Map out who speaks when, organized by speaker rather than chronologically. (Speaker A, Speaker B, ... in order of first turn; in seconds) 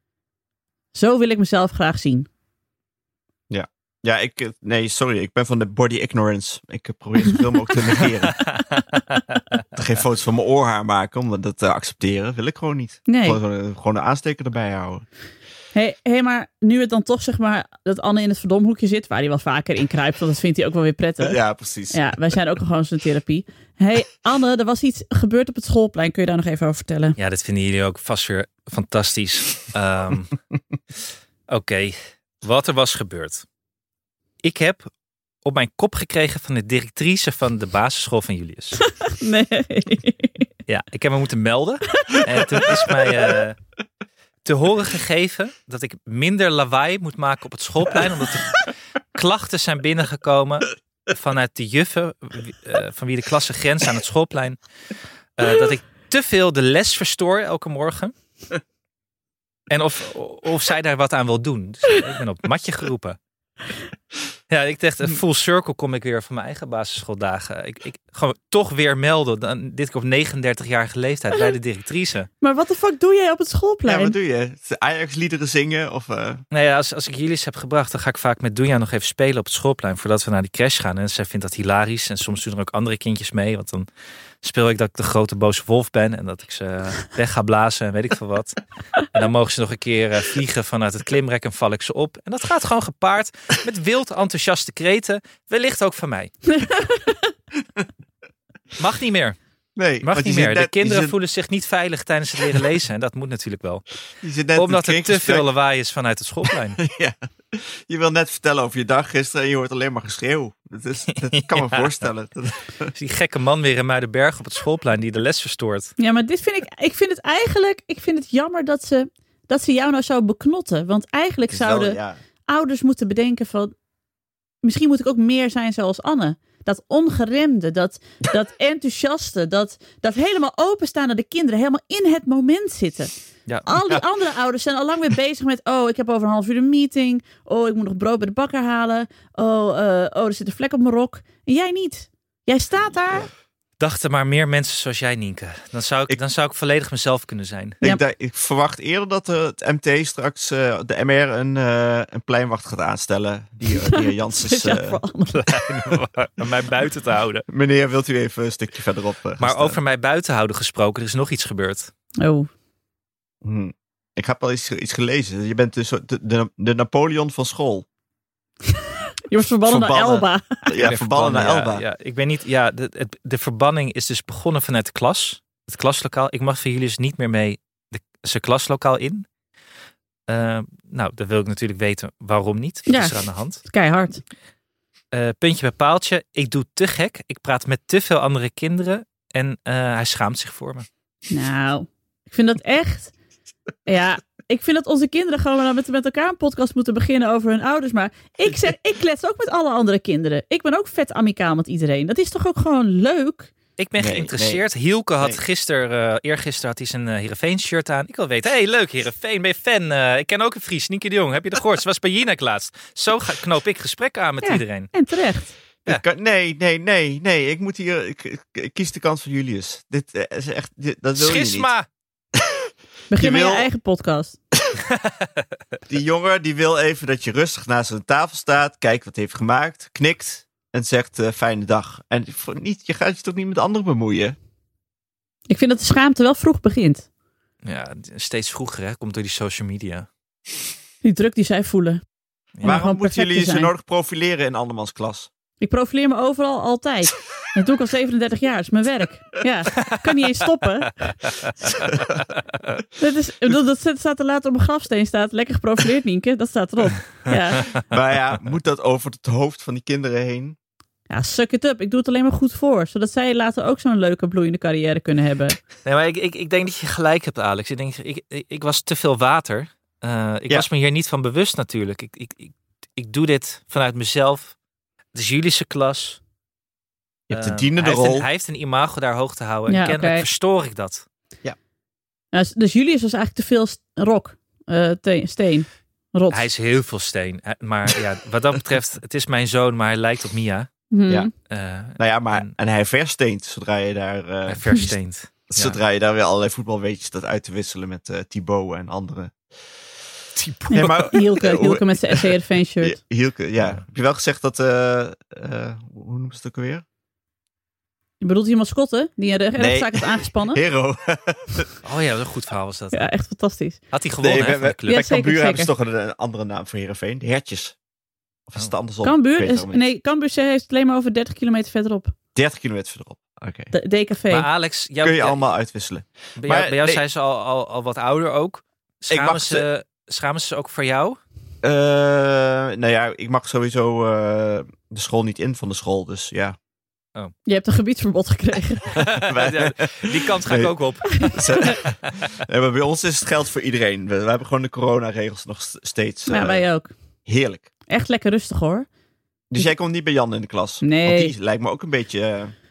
Speaker A: 0.9-2.3, 13.1-13.4, 15.7-27.1, 39.0-40.5, 42.0-42.7, 72.4-74.1, 96.5-97.3, 116.0-123.7, 124.6-133.1, 133.7-143.3, 153.8-155.4, 162.2-162.5, 169.3-170.7, 182.9-184.2, 191.3-193.1, 193.9-203.5, 214.4-215.5, 223.1-224.4, 235.5-237.1, 241.0-242.0, 242.6-243.7, 245.6-251.1, 253.0-257.6, 261.1-265.6, 279.7-280.2, 282.3-286.4, 290.9-291.3, 300.7-303.0, 308.2-310.6, 312.9-313.8, 314.9-315.7, 319.0-322.1, 323.7-324.5, 337.4-338.9, 341.3-341.7, 346.3-346.9, 347.9-348.9, 350.8-351.3
Speaker B: 3.5-8.4, 9.7-15.0, 21.2-22.0, 73.8-76.4, 99.8-101.1, 104.2-105.5, 106.8-112.9, 121.5-122.2, 147.8-155.0, 157.5-159.8, 163.4-167.8, 169.7-171.8, 204.0-204.6, 215.8-221.7, 223.1-223.7, 225.9-234.3, 242.6-245.3, 257.9-260.6, 277.3-278.2, 292.0-294.9, 295.5-299.4, 300.3-302.3, 302.8-306.8, 309.6-311.7, 314.2-317.8, 318.5-319.8, 322.3-323.7, 325.0-327.0, 329.1-329.6, 331.6-336.6, 339.0-346.6, 347.2-347.7, 349.5-352.5
Speaker C: 27.2-30.4, 31.5-33.4, 34.4-34.9, 35.4-38.9, 40.7-43.6, 44.4-54.6, 55.4-58.1, 59.7-63.2, 64.5-72.3, 76.5-83.8, 84.4-96.3, 98.8-99.4, 100.0-103.9, 104.5-106.8, 111.3-111.9, 113.0-115.9, 143.8-147.8, 155.3-157.4, 159.4-161.9, 170.8-179.3, 180.3-183.6, 185.1-190.9, 203.8-214.9, 221.2-221.8, 237.6-240.1, 242.6-242.8, 257.5-257.8, 265.8-274.6, 275.1-276.2, 277.3-281.1, 286.3-290.7, 291.5-292.5, 294.5-295.8, 311.8-313.1, 313.9-315.0, 324.3-325.4, 326.4-331.2, 338.9-342.2